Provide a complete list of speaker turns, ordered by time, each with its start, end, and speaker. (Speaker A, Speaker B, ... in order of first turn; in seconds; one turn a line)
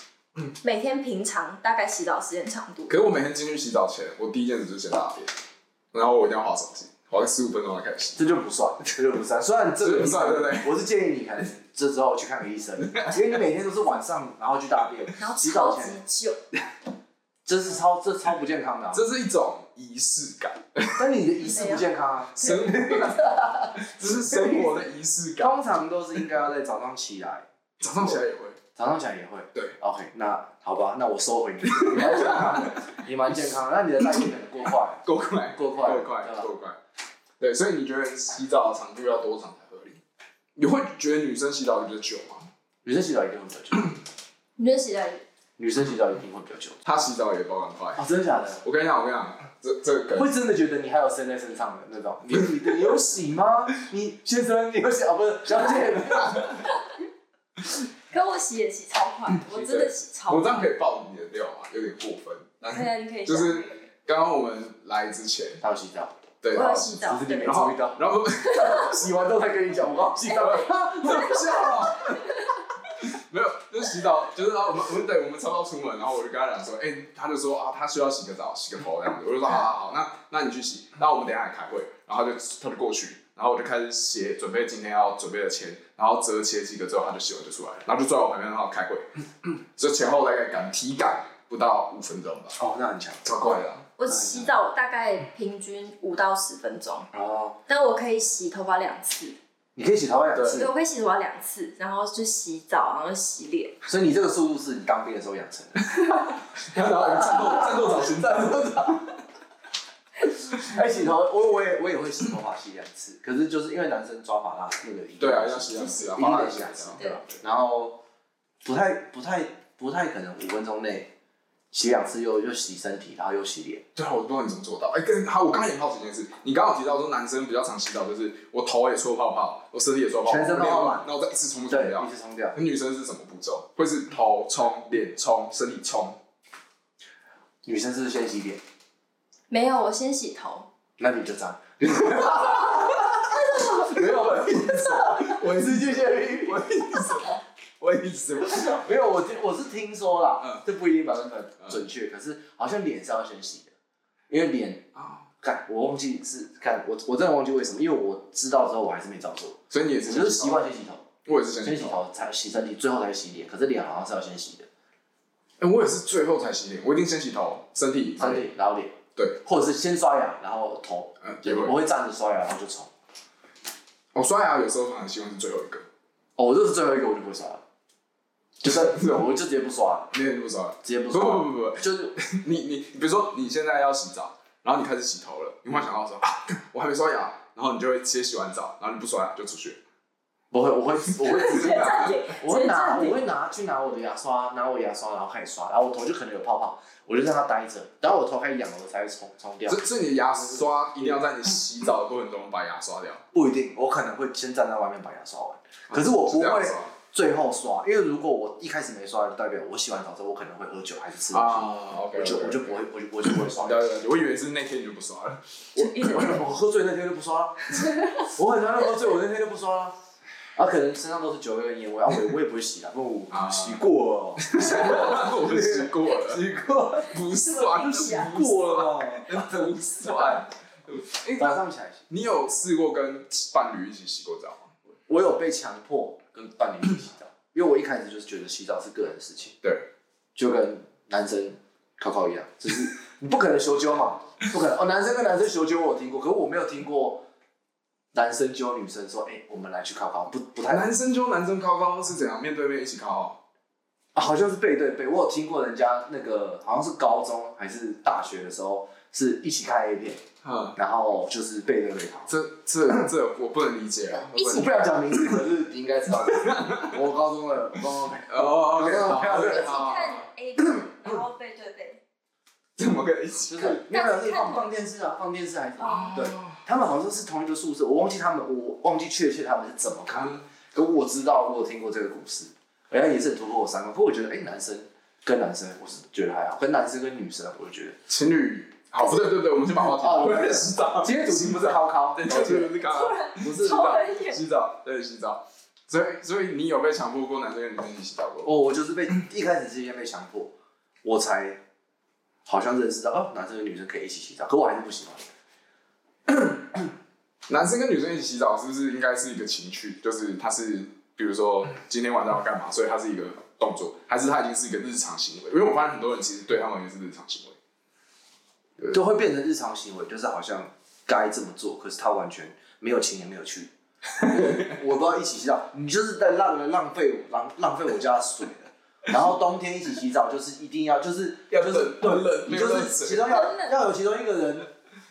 Speaker A: 0.6-3.0
Speaker B: 2.9-5.3
Speaker B: 5.9-8.2
Speaker C: 8.2-16.0
Speaker B: 9.8-10.8
Speaker B: 12.8-13.2
Speaker A: 15.2-16.4
Speaker C: 17.5-19.1
Speaker B: 18.9-21.0
Speaker C: 21.0-24.8
Speaker A: 21.4-21.9
Speaker B: 22.4-25.6
Speaker C: 25.4-27.4
Speaker B: 27.8-28.6
Speaker C: 28.8-35.0
Speaker B: 31.6-32.9
Speaker B: 35.0-36.8
Speaker C: 35.5-36.5
Speaker B: 37.4-40.0
Speaker B: 40.6-42.5
Speaker C: 42.8-44.0
Speaker A: 44.6-45.2
Speaker C: 45.6-46.8
Speaker B: 46.9-48.0
Speaker C: 48.0-48.6
Speaker B: 48.6-50.3
Speaker C: 50.1-56.7
Speaker A: 58.1-60.7
Speaker B: 59.5-65.6
Speaker A: 62.6-63.9
Speaker C: 65.6-66.2
Speaker B: 66.4-69.1
Speaker A: 66.5-67.7
Speaker C: 67.0-71.8
Speaker A: 68.5-68.9
Speaker B: 70.3-72.4
Speaker A: 70.4-72.5
Speaker B: 73.0-89.1
Speaker B: 89.8-92.6
Speaker C: 92.6-93.2
Speaker B: 93.2-93.9
Speaker A: 94.0-97.1
Speaker C: 94.1-94.5
Speaker C: 97.1-97.6
Speaker A: 97.7-99.4
Speaker C: 99.8-100.7
Speaker B: 100.3-100.6
Speaker A: 100.5-103.8
Speaker C: 103.8-106.0
Speaker B: 106.5-109.1
Speaker C: 107.0-109.0
Speaker C: 110.5-118.0
Speaker B: 115.2-117.4
Speaker C: 118.6-121.1
Speaker C: 121.7-123.8
Speaker B: 124.0-136.2
Speaker C: 130.2-131.1
Speaker C: 131.7-132.6
Speaker C: 137.6-138.6
Speaker A: 139.5-140.7
Speaker C: 141.0-147.1
Speaker A: 143.3-144.0
Speaker B: 145.1-148.8
Speaker C: 148.5-153.7
Speaker C: 154.3-154.9
Speaker B: 155.0-155.2
Speaker C: 155.4-161.1
Speaker B: 159.7-160.7
Speaker B: 161.2-162.0
Speaker C: 161.6-164.7
Speaker B: 165.6-168.5
Speaker C: 168.2-172.9
Speaker B: 171.2-171.8
Speaker B: 174.1-175.8
Speaker C: 176.4-177.6
Speaker C: 178.6-180.1
Speaker B: 178.7-179.2
Speaker B: 180.1-189.8
Speaker C: 180.8-182.2
Speaker C: 190.5-199.8
Speaker A: 191.2-193.2
Speaker B: 191.4-192.2
Speaker B: 199.7-203.2
Speaker C: 200.4-201.2
Speaker C: 203.3-213.8
Speaker B: 205.9-206.9
Speaker B: 211.3-215.4
Speaker C: 215.8-220.0
Speaker A: 215.8-216.4
Speaker C: 220.6-227.2
Speaker B: 223.3-223.8
Speaker B: 224.4-226.4
Speaker B: 227.1-231.6
Speaker A: 227.3-228.3
Speaker C: 228.1-230.3
Speaker C: 231.4-232.0
Speaker B: 232.1-234.7
Speaker C: 235.1-239.6
Speaker B: 239.6-239.9
Speaker C: 240.4-247.2
Speaker C: 248.1-250.9
Speaker B: 250.7-253.4
Speaker C: 254.2-260.2
Speaker B: 260.4-260.8
Speaker C: 260.8-262.3
Speaker B: 262.3-265.2
Speaker A: 264.1-264.8
Speaker C: 264.4-269.9
Speaker B: 266.3-267.0
Speaker B: 268.3-270.3
Speaker A: 269.2-272.0
Speaker B: 272.8-273.8
Speaker C: 273.5-288.0
Speaker A: 273.9-274.7
Speaker B: 275.8-276.6
Speaker B: 288.1-298.5
Speaker C: 289.8-292.7
Speaker A: 292.5-294.4
Speaker C: 293.4-294.0
Speaker C: 298.4-301.6
Speaker C: 302.5-305.3
Speaker B: 307.5-317.6
Speaker C: 318.9-334.7
Speaker B: 324.2-324.7
Speaker B: 331.5-333.5
Speaker A: 333.3-333.7